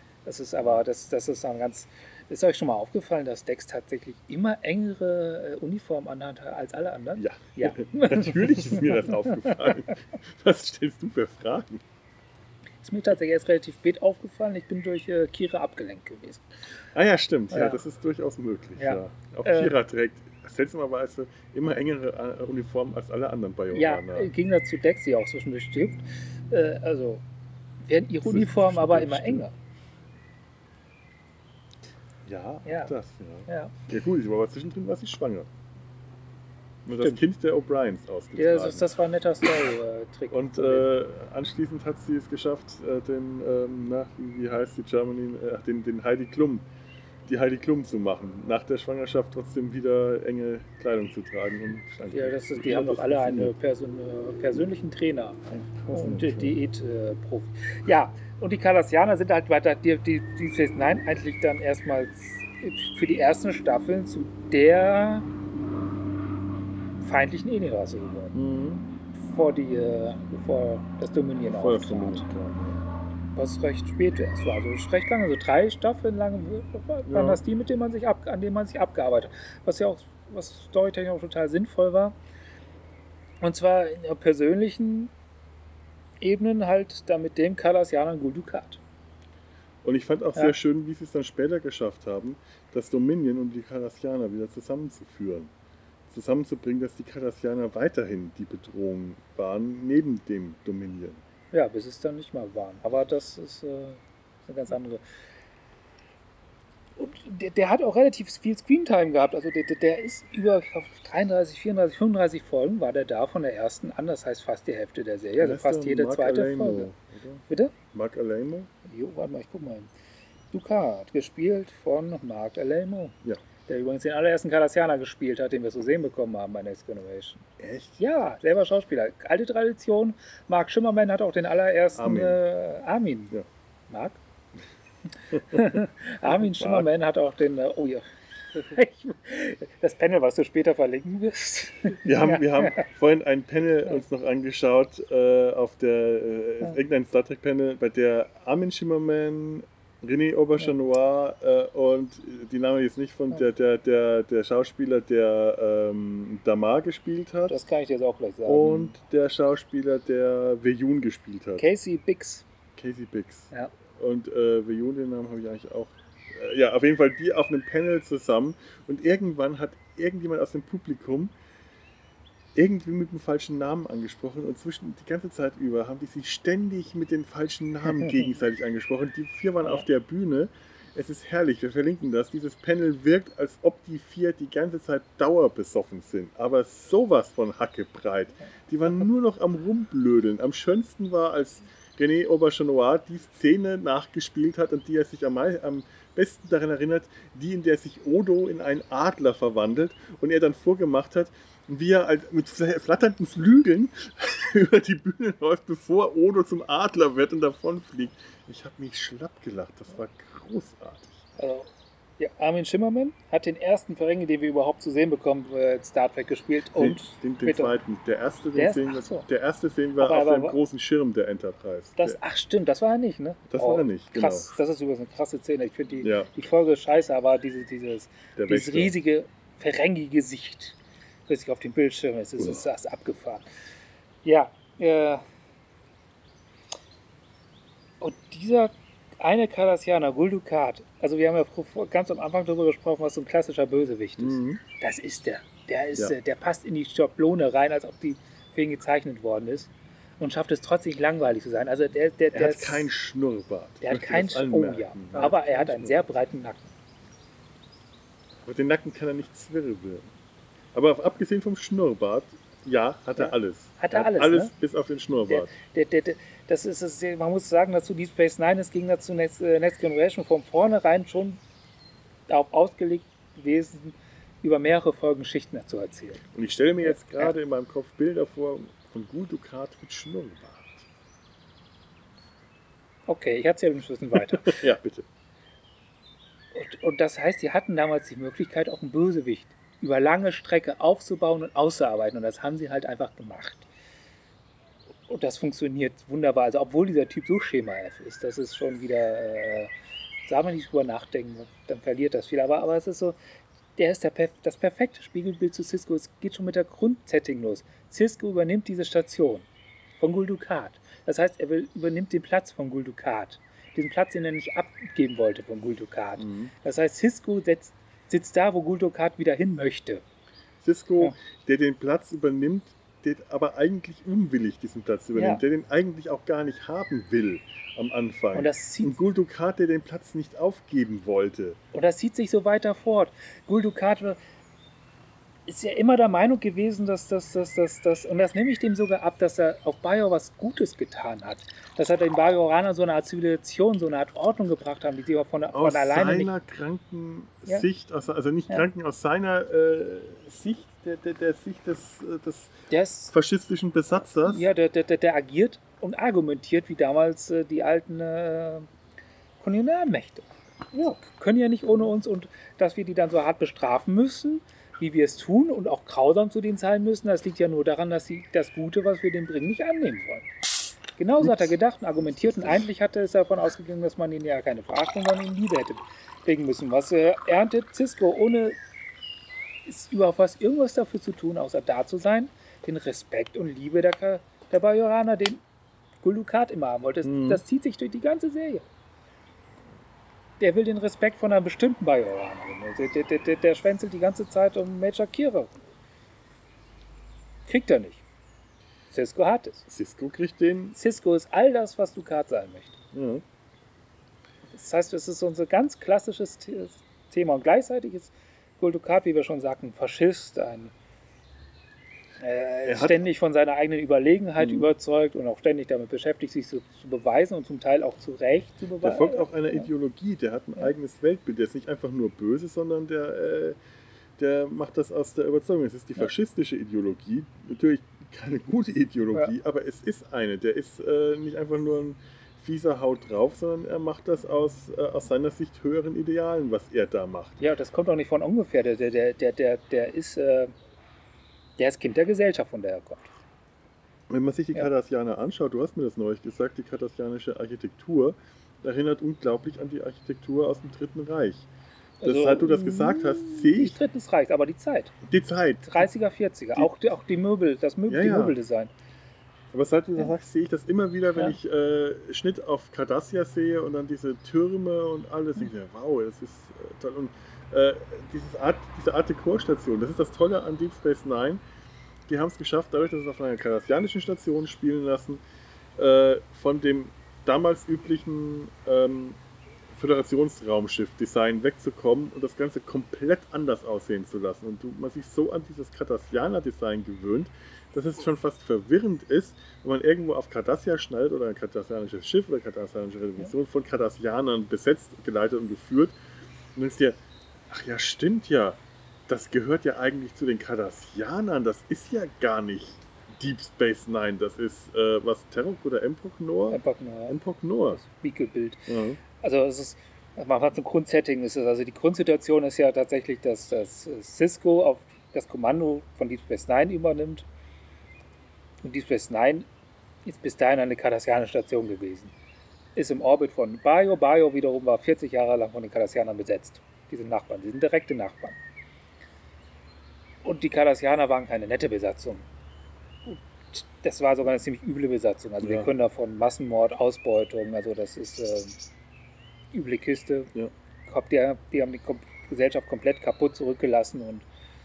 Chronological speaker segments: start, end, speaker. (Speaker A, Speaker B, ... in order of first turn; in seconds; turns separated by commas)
Speaker A: 0.2-9.7, Speaker B: 7.2-11.8, Speaker A: 12.8-16.4, Speaker B: 16.9-24.3, Speaker A: 17.5-17.8, Speaker A: 18.8-19.8, Speaker A: 23.7-27.2, Speaker A: 27.9-29.5, Speaker B: 28.2-29.5, Speaker B: 32.2-35.5, Speaker A: 32.7-32.9, Speaker A: 33.5-33.7, Speaker B: 36.9-38.9, Speaker A: 38.4-40.9, Speaker B: 40.3-46.6, Speaker B: 47.3-53.5, Speaker A: 52.1-65.3, Speaker B: 55.5-56.6, Speaker A: 67.0-68.3, Speaker B: 68.3-68.9, Speaker A: 69.2-72.2, Speaker B: 71.5-72.8, Speaker A: 73.4-82.2, Speaker B: 77.1-77.4, Speaker A: 83.4-85.1, Speaker A: 86.2-88.8, Speaker B: 89.8-95.5, Speaker B: 96.1-101.2, Speaker A: 101.5-105.0, Speaker A: 107.0-116.9, Speaker B: 115.4-118.7, Speaker A: 117.5-117.7, Speaker A: 118.9-119.9, Speaker A: 120.5-123.2, Speaker A: 123.7-127.5, Speaker B: 127.6-128.0, Speaker A: 128.0-133.3, Speaker B: 132.0-132.4, Speaker A: 133.9-134.2, Speaker B: 135.3-136.9, Speaker A: 135.5-142.8, Speaker B: 142.0-157.6, Speaker A: 157.5-158.9, Speaker B: 158.5-161.7, Speaker A: 161.6-162.4, Speaker B: 162.8-171.3, Speaker B: 172.6-211.2, Speaker A: 178.0-178.2, Speaker A: 211.4-217.7, Speaker B: 216.8-222.2, Speaker A: 218.6-219.3, Speaker A: 220.0-220.6, Speaker A: 222.0-233.5, Speaker B: 223.5-224.5, Speaker B: 226.0-226.3, Speaker B: 228.4-228.9, Speaker A: 234.2-235.2, Speaker A: 238.0-252.9, Speaker B: 244.2-244.6, Speaker B: 252.3-256.0, Speaker A: 253.8-256.7, Speaker B: 258.4-260.1, Speaker B: 260.7-265.5, Speaker A: 263.2-264.5, Speaker A: 265.3-271.4, Speaker A: 272.3-276.2, Speaker B: 276.3-280.9, Speaker A: 276.8-277.3, Speaker A: 283.1-284.6, Speaker B: 284.4-285.1, Speaker A: 286.5-293.7, Speaker A: 295.1-299.7, Speaker A: 300.3-303.2, Speaker A: 303.8-309.4, Speaker A: 310.0-320.0, Speaker B: 316.2-316.5, Speaker B: 320.6-331.6, Speaker A: 325.1-325.4, Speaker A: 328.3-329.0, Speaker A: 331.7-334.2, Speaker A: 335.5-346.3, Speaker B: 345.5-352.5, Speaker A: 352.7-353.1, Speaker B: 353.1-354.5, Speaker A: 354.2-358.7, Speaker A: 359.4-360.3, Speaker B: 360.7-361.0, Speaker A: 361.0-370.3, Speaker A: 371.0-378.6, Speaker B: 371.2-371.5, Speaker A: 379.7-385.4, Speaker A: 386.0-388.6, Speaker B: 387.0-387.4, Speaker A: 390.4-395.6, Speaker A: 397.5-398.0, Speaker A: 398.9-399.6, Speaker B: 399.7-400.8, Speaker A: 400.7-402.8, Speaker B: 402.9-403.2, Speaker A: 404.5-410.7, Speaker A: 412.2-419.7, Speaker B: 412.6-413.0, Speaker B: 414.4-414.7, Speaker B: 418.8-423.6, Speaker B: 424.2-437.4, Speaker A: 437.4-440.5, Speaker A: 441.6-443.1, Speaker B: 444.1-451.5, Speaker A: 452.0-454.9, Speaker B: 452.0-453.8, Speaker B: 455.0-455.9, Speaker A: 455.6-458.7, Speaker B: 456.6-456.8, Speaker B: 457.9-458.4, Speaker B: 459.5-471.4, Speaker B: 472.1-475.2, Speaker B: 475.8-479.2, Speaker B: 479.7-496.0, Speaker B: 496.6-497.0, Speaker B: 497.5-507.8, Speaker A: 506.5-507.2, Speaker A: 507.8-517.3, Speaker B: 508.7-509.0, Speaker A: 518.6-519.5, Speaker A: 520.0-522.1, Speaker A: 522.8-528.4, Speaker A: 530.2-532.2, Speaker A: 533.1-538.6, Speaker B: 535.4-535.7, Speaker A: 539.5-540.3, Speaker A: 540.9-544.2